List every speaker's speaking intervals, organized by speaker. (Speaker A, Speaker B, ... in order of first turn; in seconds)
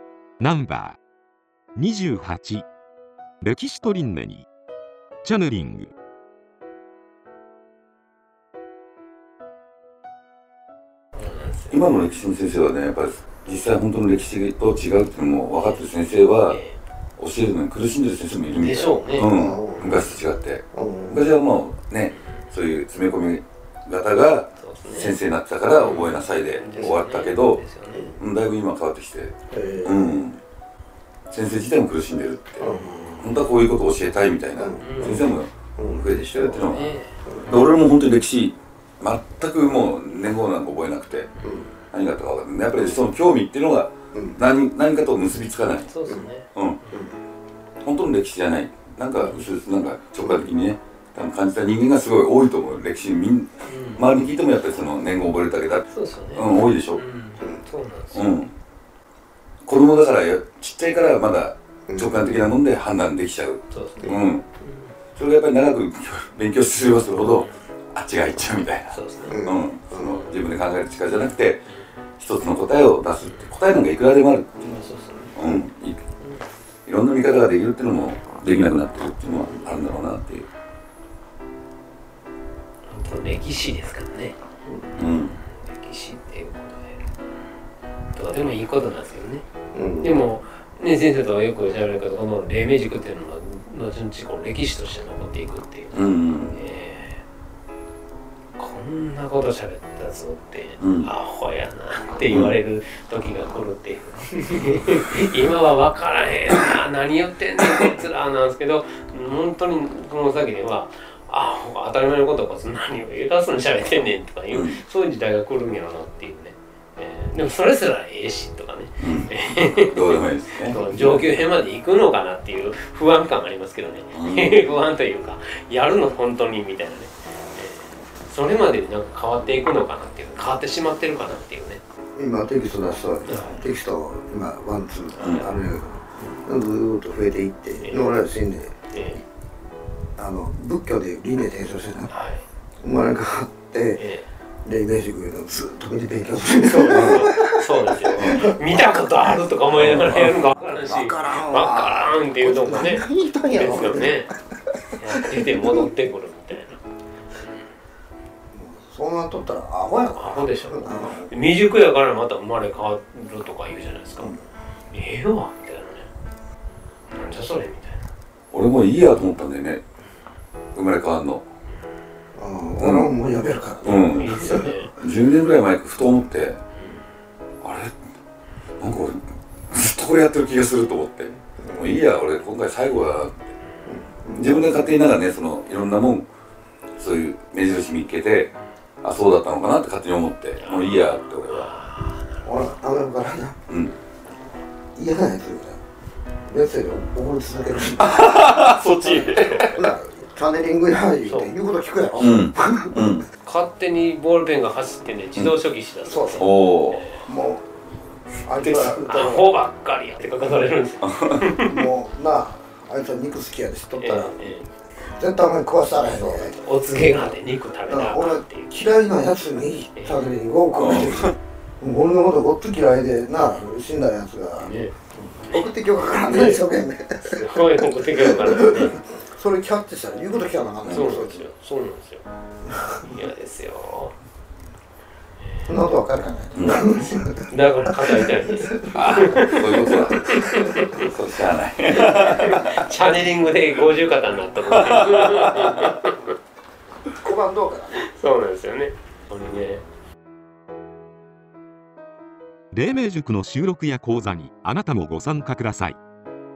Speaker A: 0.4-1.0, 1.8-2.7, 3.4-4.5, 5.2-5.9, 252.7-256.0
Speaker B: 11.2-12.1, 15.5-15.8, 16.5-16.8, 18.5-19.3, 24.6-25.2, 25.8-28.1, 34.8-35.3, 36.6-37.2, 41.4-41.7, 45.9-47.1, 53.6-54.2, 55.9-58.3, 63.7-64.9, 67.2-67.6, 68.9-69.5, 70.0-70.4, 73.2-73.5, 74.6-75.4, 76.2-76.4, 79.3-79.8, 82.9-87.0, 88.1-89.5, 90.0-97.2, 98.6-131.8, 133.3-133.6, 135.2-135.5, 137.8-138.2, 138.9-139.2, 142.1-142.4, 144.0-144.3, 146.6-154.3, 155.0-156.8, 160.2-166.1, 167.1-168.0, 174.0-174.9, 190.6-192.8, 198.7-199.8, 201.2-201.5, 203.4-207.3, 208.7-211.9, 214.0-214.7, 216.0-218.7, 220.0-220.3, 224.6-224.9, 225.5-226.6, 227.3-229.0, 230.8-232.3, 233.0-234.2, 235.4-235.7, 237.5-241.1, 241.9-246.3, 247.9-249.8
Speaker C: 11.7-16.6, 17.2-27.6, 28.2-30.4, 31.3-32.7, 33.2-41.3, 41.9-45.9, 46.5-46.8, 47.8-57.0, 58.1-58.5, 59.6-64.5, 65.2-71.6, 72.2-74.8, 75.3-76.0, 76.9-80.5, 85.0-85.4, 95.9-96.6, 100.8-101.1, 102.3-102.5, 114.5-114.8, 119.0-121.3, 124.1-124.7, 135.2-135.5, 148.2-148.5, 149.7-150.4, 168.5-169.8, 170.8-171.5, 172.8-173.1, 173.8-176.6, 177.6-178.0, 178.8-183.5, 184.4-186.3, 187.0-191.7, 193.7-193.9, 197.9-199.8, 202.2-203.3, 206.4-207.1, 208.7-209.0, 211.0-211.4, 220.8-221.3, 230.8-231.1, 236.6-236.8, 238.9-242.8, 244.7-245.8
Speaker D: 19.3-20.0, 20.7-21.2, 27.9-28.2, 29.5-30.2, 32.6-33.4, 34.6-37.6, 41.4-41.7, 44.1-44.4, 46.9-47.2, 50.2-50.5, 61.9-62.3, 69.3-70.2, 89.7-90.2, 132.2-138.8, 140.2-142.1, 142.8-144.0, 144.7-148.9, 150.8-154.3, 154.9-155.9, 158.5-161.3, 172.3-174.8, 181.6-182.0, 183.8-185.0, 192.4-193.6, 195.0-195.8, 196.5-198.2, 199.7-203.2, 206.1-206.5, 207.2-207.7, 208.4-209.5, 211.6-214.4, 215.1-216.6, 217.9-231.5, 232.7-233.0, 235.7-238.8, 239.7-240.7, 247.2-248.0